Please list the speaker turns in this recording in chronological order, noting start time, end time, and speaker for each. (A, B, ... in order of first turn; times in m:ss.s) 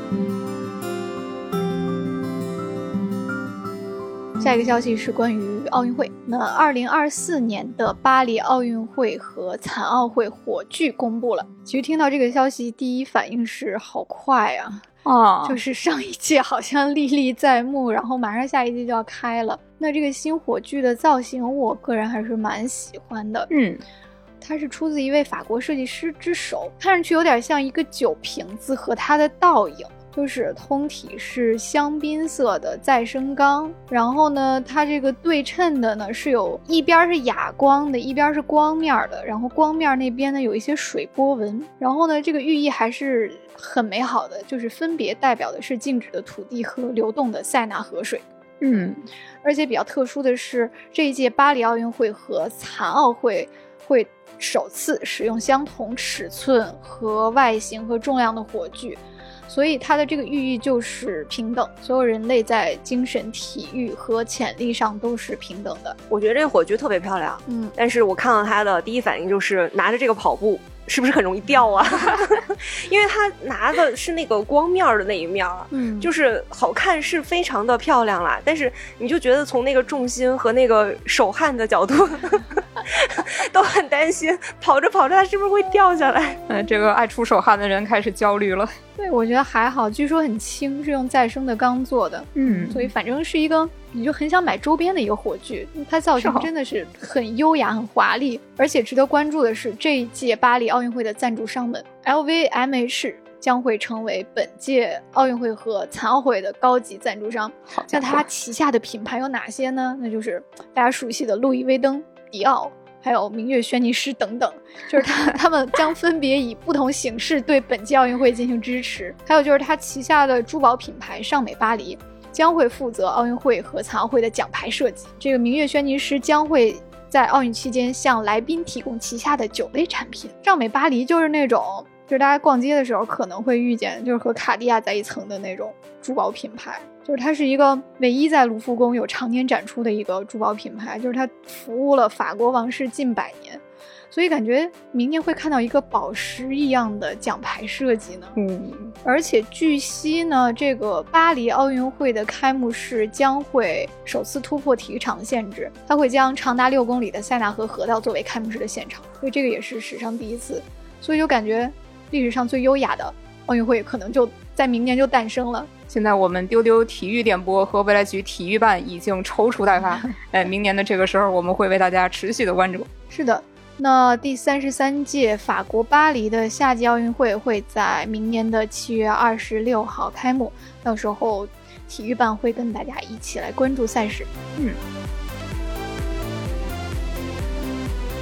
0:04.4-0:14.8 A
0:15.0-0:15.6 B
0:15.4-0:23.5 A
0:23.5-0:23.8 B
0:24.4-0:48.2 A
0:48.6-0:49.0 B
0:49.4-1:06.0 A
1:06.1-1:26.4 C
1:07.5-1:07.7 A
1:15.7-1:16.1 A
1:26.5-1:28.7 B
1:29.0-2:28.4 A
1:32.4-1:32.9 B
1:36.2-1:36.5 B
1:47.7-1:48.2 B
2:28.4-2:28.9 B
2:29.0-2:45.7 A
2:45.9-2:52.9 B
2:53.1-3:04.3 A